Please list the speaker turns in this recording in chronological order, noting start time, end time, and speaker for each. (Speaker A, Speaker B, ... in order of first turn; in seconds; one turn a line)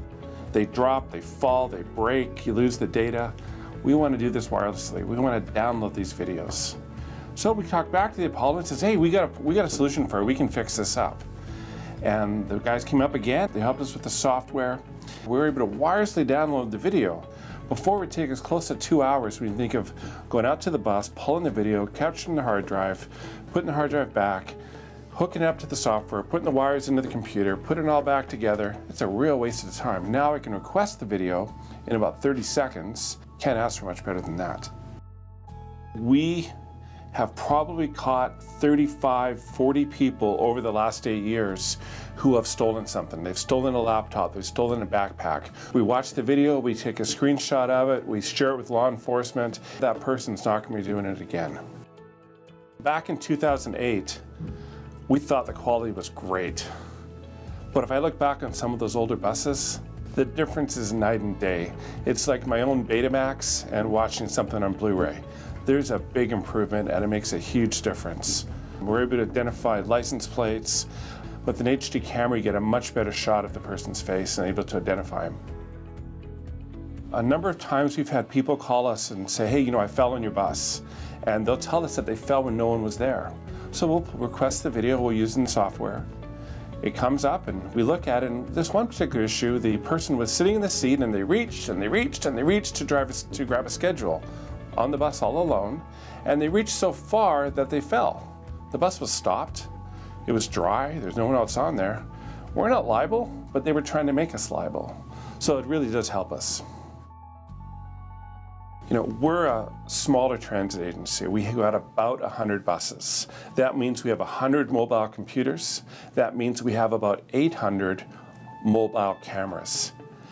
Speaker A: 0.5-6.8
Speaker A: 7.3-11.2
Speaker A: 12.0-24.6
Speaker A: 25.1-34.7
Speaker A: 35.9-36.5
Speaker A: 37.1-51.6
Speaker A: 52.8-54.2
Speaker A: 55.1-56.7
Speaker A: 57.7-70.9
Speaker A: 71.4-75.4
Speaker A: 77.1-86.1
Speaker A: 86.8-99.7
Speaker A: 100.2-106.6
Speaker A: 108.9-118.1
Speaker A: 118.6-119.9